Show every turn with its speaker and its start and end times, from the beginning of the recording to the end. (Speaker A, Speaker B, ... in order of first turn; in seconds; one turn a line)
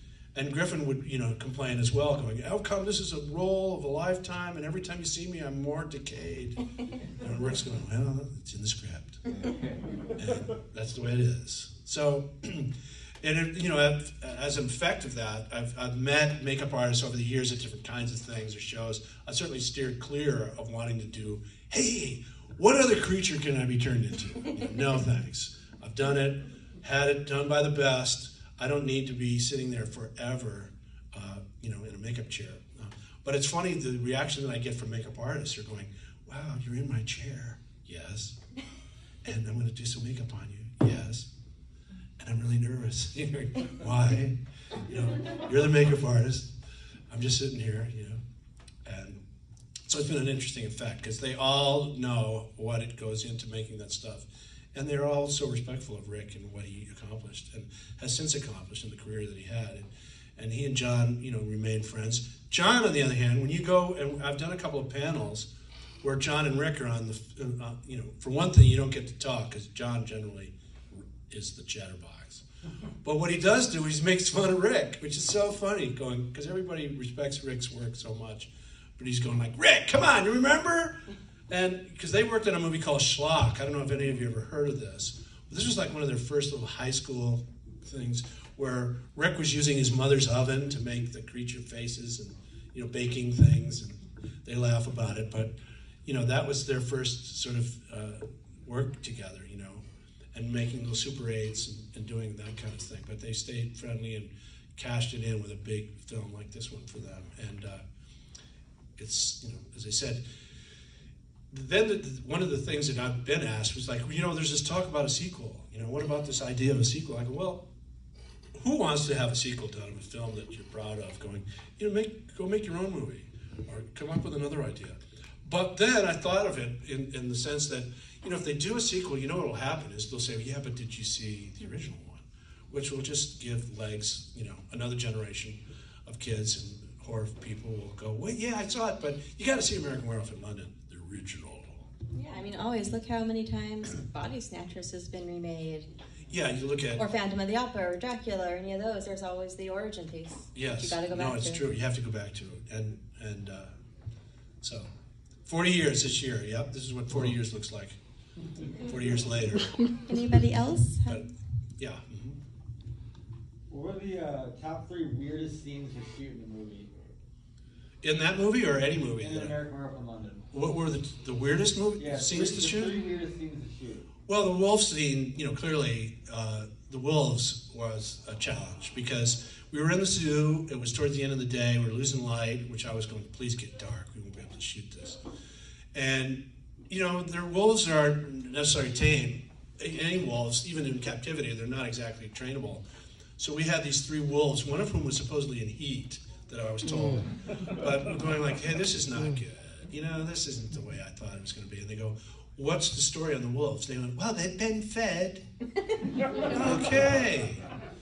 Speaker A: 0.3-6.6
Speaker A: 7.2-9.2
Speaker A: 10.1-38.4
Speaker A: 39.2-41.3
Speaker A: 42.2-46.5
Speaker A: 47.1-48.2
Speaker A: 48.8-49.2
Speaker A: 49.9-65.5
Speaker A: 66.0-72.4
Speaker A: 73.0-95.5
Speaker A: 96.0-107.8
Speaker A: 109.0-110.2
Speaker A: 111.5-117.7
Speaker A: 118.6-141.9
Speaker B: 142.1-145.9
Speaker A: 146.3-147.0
Speaker B: 146.9-151.6
Speaker A: 150.5-153.7
Speaker A: 154.6-154.9
Speaker A: 155.4-158.0
Speaker A: 158.7-159.8
Speaker B: 159.9-161.2
Speaker A: 161.8-162.4
Speaker C: 163.7-166.9
Speaker A: 168.0-169.6
Speaker C: 169.2-170.4
Speaker A: 170.5-173.0
Speaker C: 172.0-174.1
Speaker A: 174.3-185.2
Speaker A: 185.9-192.8
Speaker A: 193.4-205.4
Speaker A: 206.3-207.7